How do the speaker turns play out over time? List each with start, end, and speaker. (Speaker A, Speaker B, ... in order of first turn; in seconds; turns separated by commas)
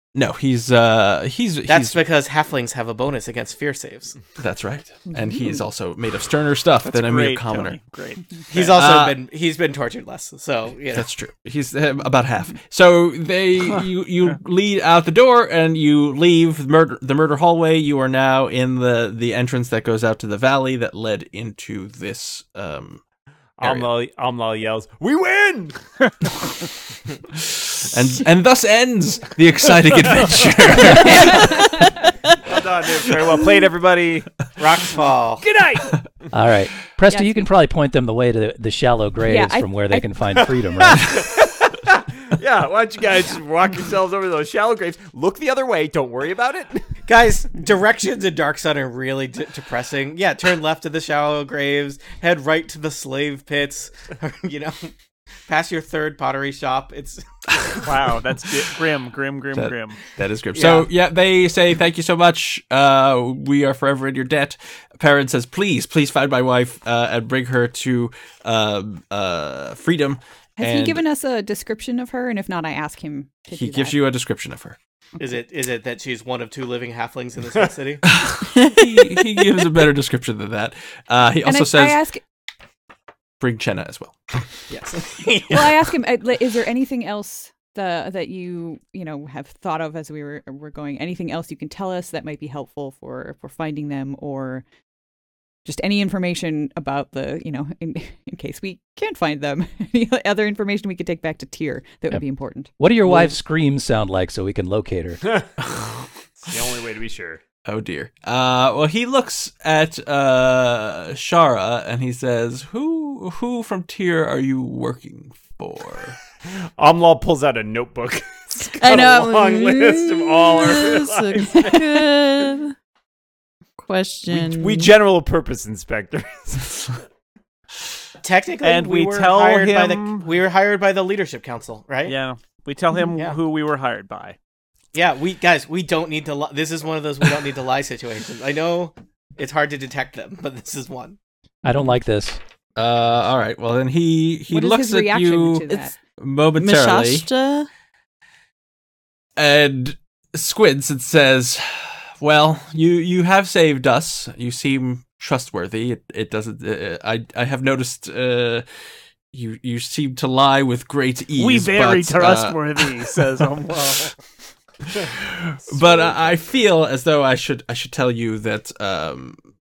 Speaker A: 0.1-2.0, Speaker B: 1.7-4.2, Speaker A: 4.4-7.8, Speaker C: 6.8-8.4, Speaker B: 8.5-11.1, Speaker A: 8.5-9.2, Speaker A: 10.9-23.0, Speaker D: 23.6-25.8, Speaker A: 23.6-23.9, Speaker A: 27.3-31.6, Speaker E: 30.9-31.2, Speaker F: 31.0-31.7, Speaker D: 32.4-34.3, Speaker B: 34.6-35.5, Speaker E: 36.3-41.2, Speaker F: 37.1-37.5, Speaker F: 39.2-40.1, Speaker D: 40.8-46.9, Speaker B: 47.1-54.9, Speaker B: 55.5-57.8, Speaker C: 57.8-60.0, Speaker A: 59.5-71.0, Speaker B: 60.5-60.9, Speaker F: 70.6-74.0, Speaker A: 73.5-74.8, Speaker B: 75.2-78.0, Speaker A: 78.0-82.0, Speaker G: 78.5-79.4, Speaker F: 81.4-82.2, Speaker A: 83.4-84.4, Speaker B: 84.7-85.8, Speaker F: 85.5-94.6, Speaker F: 95.6-103.3, Speaker E: 102.8-105.2, Speaker A: 105.6-106.1, Speaker D: 106.4-107.4, Speaker A: 107.7-116.2, Speaker D: 116.5-121.8, Speaker G: 118.7-122.7, Speaker F: 121.5-122.0, Speaker G: 123.8-124.9, Speaker D: 124.3-127.0, Speaker B: 128.2-132.2, Speaker C: 128.6-130.3, Speaker C: 132.0-134.4, Speaker B: 134.9-141.2, Speaker E: 141.6-142.4, Speaker A: 142.8-147.3, Speaker F: 144.5-145.9, Speaker G: 146.6-147.7, Speaker A: 149.4-158.7, Speaker A: 159.3-163.2, Speaker C: 161.3-164.2, Speaker A: 164.8-169.4, Speaker D: 165.8-166.2